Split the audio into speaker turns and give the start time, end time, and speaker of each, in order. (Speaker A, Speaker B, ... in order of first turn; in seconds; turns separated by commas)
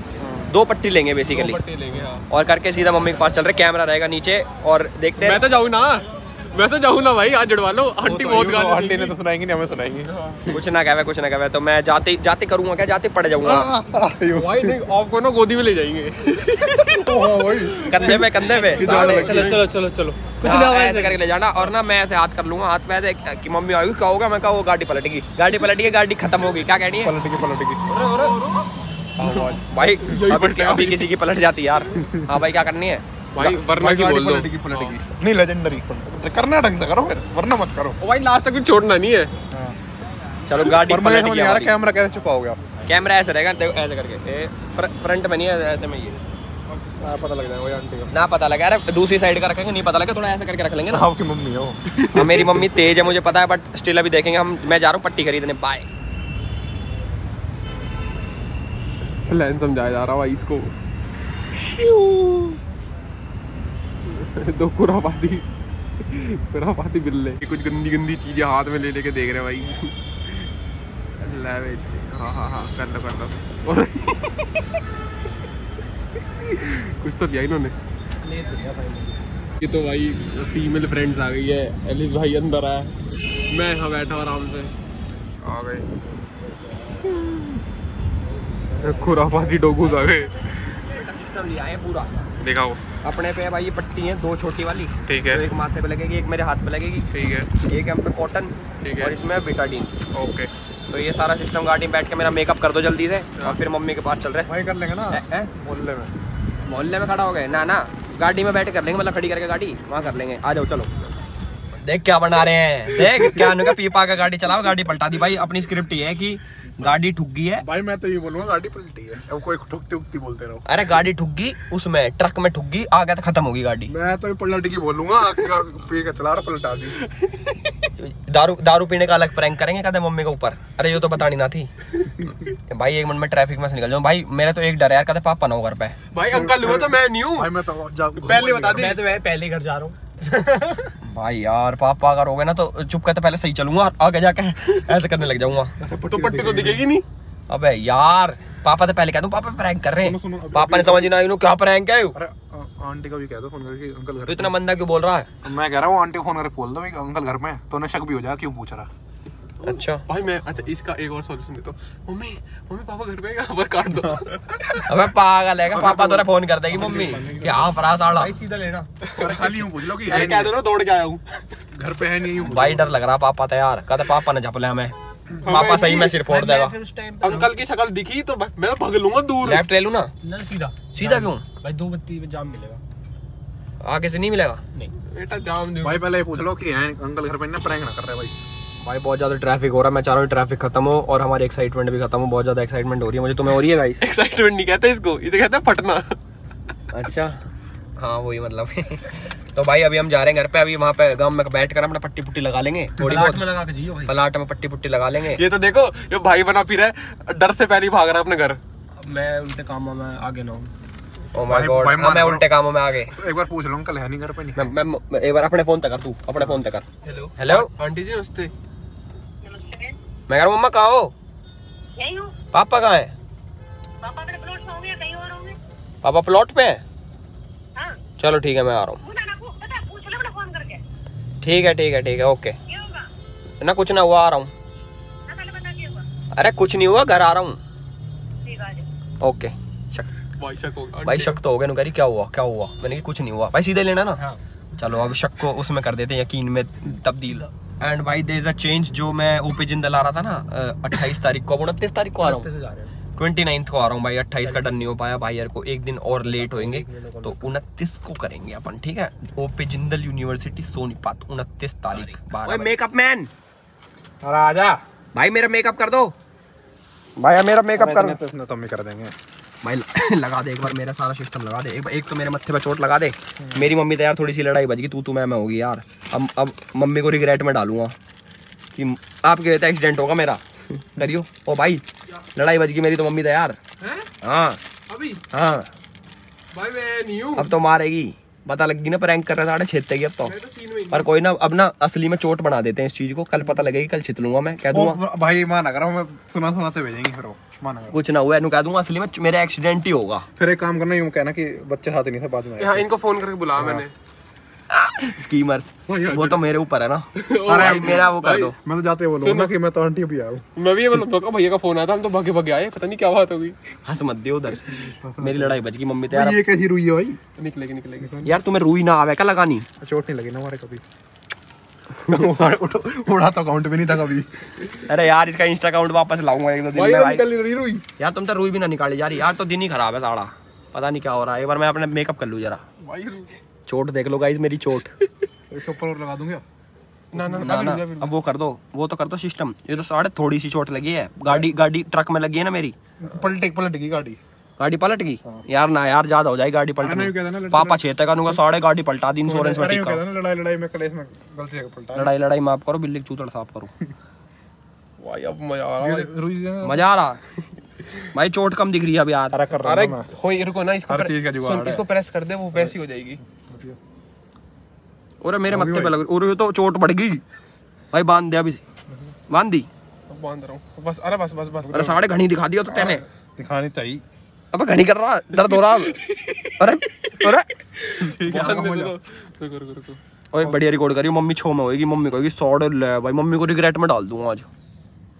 Speaker A: 0.2-0.5, Speaker B: 0.5-1.6, Speaker A: 1.3-2.2, Speaker B: 2.3-5.4, Speaker A: 5.2-9.2, Speaker C: 8.0-10.6, Speaker B: 10.5-13.7, Speaker C: 13.4-14.8, Speaker A: 14.3-19.7, Speaker C: 16.6-19.6, Speaker B: 17.9-19.0, Speaker D: 19.0-21.2, Speaker B: 20.4-27.2, Speaker C: 27.0-27.9, Speaker A: 27.9-28.6, Speaker B: 29.2-33.0, Speaker A: 29.2-31.1, Speaker A: 33.4-35.0, Speaker C: 33.4-38.0, Speaker A: 38.0-39.3, Speaker C: 39.5-39.8, Speaker B: 40.5-41.8, Speaker C: 40.8-42.6, Speaker B: 42.9-46.2, Speaker A: 46.7-47.0, Speaker C: 47.0-48.1, Speaker B: 48.1-51.1, Speaker C: 50.9-51.8, Speaker A: 52.0-52.8, Speaker B: 52.1-55.9, Speaker A: 59.3-60.7, Speaker A: 61.5-62.6, Speaker A: 64.1-65.5, Speaker A: 66.0-70.5, Speaker A: 71.2-74.7, Speaker A: 76.3-77.8, Speaker D: 78.2-79.2, Speaker A: 79.6-83.0, Speaker A: 83.5-84.7, Speaker A: 85.4-85.9, Speaker A: 88.8-90.8, Speaker B: 90.9-92.2, Speaker A: 92.4-92.8, Speaker B: 93.0-97.1, Speaker A: 95.1-95.4, Speaker A: 97.1-97.5, Speaker B: 97.6-99.9, Speaker A: 98.8-99.2, Speaker A: 100.1-100.5, Speaker B: 100.9-104.5, Speaker C: 104.5-106.1, Speaker B: 105.1-105.5, Speaker B: 106.7-110.9, Speaker B: 111.8-117.7, Speaker C: 113.1-113.5, Speaker C: 117.6-120.9, Speaker B: 120.7-123.9, Speaker C: 123.9-127.1, Speaker B: 128.0-131.7, Speaker B: 132.7-136.0, Speaker A: 136.1-137.5, Speaker C: 136.3-139.0, Speaker A: 138.2-139.0, Speaker D: 138.8-140.7, Speaker B: 141.1-145.7, Speaker C: 145.8-146.9, Speaker A: 146.1-147.1, Speaker B: 147.5-152.2, Speaker C: 150.0-151.2, Speaker C: 152.1-154.5, Speaker B: 154.3-155.3, Speaker C: 155.4-158.9, Speaker B: 159.6-160.0, Speaker A: 159.7-164.9, Speaker B: 164.9-168.3, Speaker C: 165.7-167.8, Speaker D: 168.2-168.9, Speaker A: 169.0-171.4, Speaker C: 169.1-170.6, Speaker C: 171.7-172.9, Speaker B: 172.5-174.9, Speaker A: 175.4-176.2, Speaker B: 175.5-176.8, Speaker D: 175.5-177.5, Speaker A: 177.2-179.7, Speaker B: 179.4-180.1, Speaker D: 180.2-182.8, Speaker B: 180.9-181.6, Speaker B: 183.8-184.6, Speaker A: 185.1-186.0, Speaker C: 185.8-188.3, Speaker B: 188.8-194.0, Speaker A: 194.0-196.2, Speaker B: 196.9-197.4, Speaker B: 198.0-203.5, Speaker D: 203.1-204.1, Speaker B: 204.1-205.4, Speaker A: 205.3-208.6, Speaker D: 209.0-210.7, Speaker B: 211.3-213.2, Speaker C: 211.4-212.5, Speaker C: 213.1-214.8, Speaker B: 214.6-216.9, Speaker A: 217.0-218.5, Speaker B: 217.4-217.7, Speaker E: 219.4-220.0, Speaker B: 220.3-221.1, Speaker E: 222.0-222.4, Speaker B: 222.5-223.1, Speaker E: 224.0-225.6, Speaker B: 226.0-226.8, Speaker B: 228.2-229.0, Speaker E: 229.0-230.8, Speaker B: 231.4-232.6, Speaker E: 232.7-233.1, Speaker B: 233.6-234.5, Speaker E: 235.3-236.0, Speaker B: 236.3-237.6, Speaker E: 238.4-238.9, Speaker B: 239.2-240.1, Speaker A: 240.4-241.4, Speaker B: 241.0-244.2, Speaker B: 244.8-252.5, Speaker D: 252.2-252.9, Speaker B: 253.2-263.3, Speaker D: 254.4-254.8, Speaker D: 256.3-257.5, Speaker D: 262.3-262.7, Speaker C: 264.2-264.8, Speaker B: 265.1-266.1, Speaker B: 267.2-268.2, Speaker C: 267.8-269.1, Speaker B: 269.6-277.9, Speaker C: 273.4-273.7, Speaker B: 278.7-281.8, Speaker B: 282.4-283.6, Speaker A: 283.8-284.1, Speaker B: 284.2-284.6, Speaker A: 284.9-285.2, Speaker B: 285.3-285.7, Speaker A: 286.5-287.6, Speaker B: 287.4-290.4, Speaker A: 290.2-291.1, Speaker B: 290.9-295.0, Speaker C: 294.7-298.0, Speaker B: 297.9-300.3, Speaker C: 300.4-302.9, Speaker A: 302.6-303.9, Speaker C: 303.6-303.9, Speaker B: 304.7-307.1, Speaker A: 305.9-306.4, Speaker A: 307.2-308.6, Speaker C: 307.4-308.1, Speaker B: 307.6-308.6, Speaker C: 308.6-310.5, Speaker A: 309.2-309.5, Speaker A: 310.6-313.6, Speaker B: 313.9-314.6, Speaker C: 314.7-317.2, Speaker B: 315.2-316.4, Speaker A: 317.4-318.2, Speaker C: 318.0-318.4, Speaker B: 318.2-319.7, Speaker C: 319.8-320.8, Speaker C: 322.0-324.5, Speaker B: 324.9-327.3, Speaker A: 326.7-327.9, Speaker B: 328.0-332.6, Speaker A: 332.8-333.3, Speaker B: 333.7-334.9, Speaker C: 335.5-336.4, Speaker A: 337.1-338.1, Speaker C: 337.2-337.4, Speaker B: 337.4-342.8, Speaker C: 343.0-344.2, Speaker B: 344.6-350.0, Speaker C: 346.8-348.4, Speaker C: 349.2-352.1, Speaker B: 352.0-353.7, Speaker A: 355.0-356.1, Speaker C: 355.8-356.8, Speaker B: 356.6-357.2, Speaker B: 358.1-359.4, Speaker C: 359.3-360.1, Speaker A: 359.6-363.2, Speaker C: 360.9-361.8, Speaker C: 363.2-363.8, Speaker B: 365.2-367.2, Speaker C: 365.5-366.0, Speaker B: 367.9-368.6, Speaker C: 368.9-369.1, Speaker B: 369.3-369.7, Speaker A: 370.1-372.0, Speaker C: 371.6-371.9, Speaker B: 371.7-373.0, Speaker C: 372.7-374.0, Speaker B: 374.5-376.0, Speaker A: 375.4-376.7, Speaker B: 376.6-377.5, Speaker A: 377.2-380.0, Speaker C: 378.0-379.0, Speaker B: 378.3-378.6, Speaker B: 380.3-384.5